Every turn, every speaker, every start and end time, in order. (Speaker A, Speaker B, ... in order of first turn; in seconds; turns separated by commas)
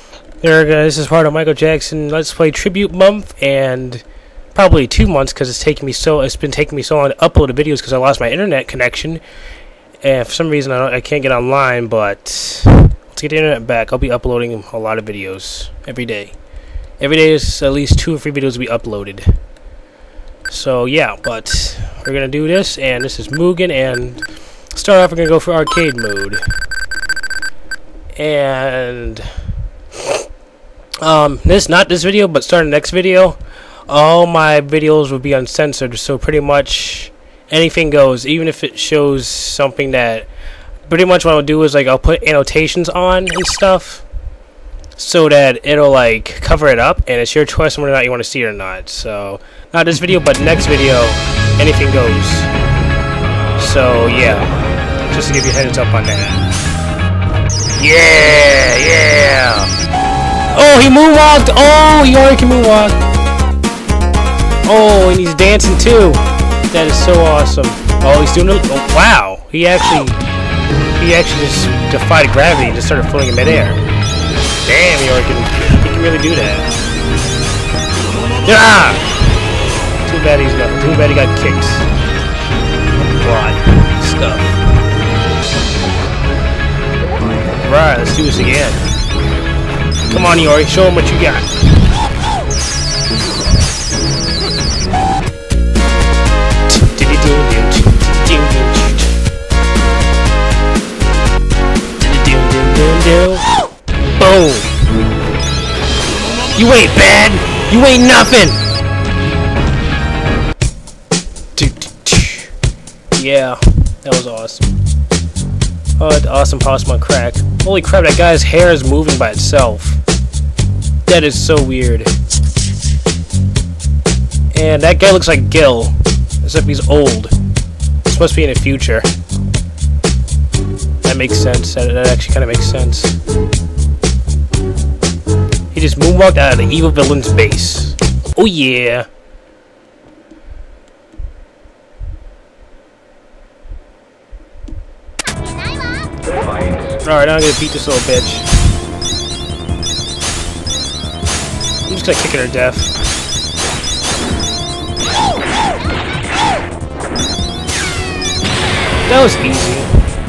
Speaker A: 0.4-9.2, Speaker A: 10.0-16.4, Speaker A: 17.0-19.3, Speaker A: 20.5-26.4, Speaker A: 28.2-29.3, Speaker A: 31.0-40.3, Speaker A: 40.9-44.0, Speaker A: 45.0-52.5, Speaker A: 53.6-56.4, Speaker A: 57.8-59.7, Speaker A: 60.5-63.0, Speaker A: 64.6-70.2, Speaker A: 70.9-73.8, Speaker A: 74.6-76.7, Speaker A: 78.4-79.0, Speaker A: 80.0-81.9, Speaker A: 83.0-84.6, Speaker A: 87.5-88.8, Speaker A: 90.1-91.5, Speaker A: 96.7-99.1, Speaker A: 102.0-103.5, Speaker A: 104.2-104.7, Speaker A: 106.5-108.6, Speaker A: 111.5-112.5, Speaker A: 113.2-114.7, Speaker A: 116.0-120.0, Speaker A: 121.0-122.1, Speaker A: 124.5-127.3, Speaker A: 128.0-129.1, Speaker A: 131.0-133.2, Speaker A: 135.7-139.1, Speaker A: 147.0-148.5, Speaker A: 151.9-152.9, Speaker A: 159.1-159.9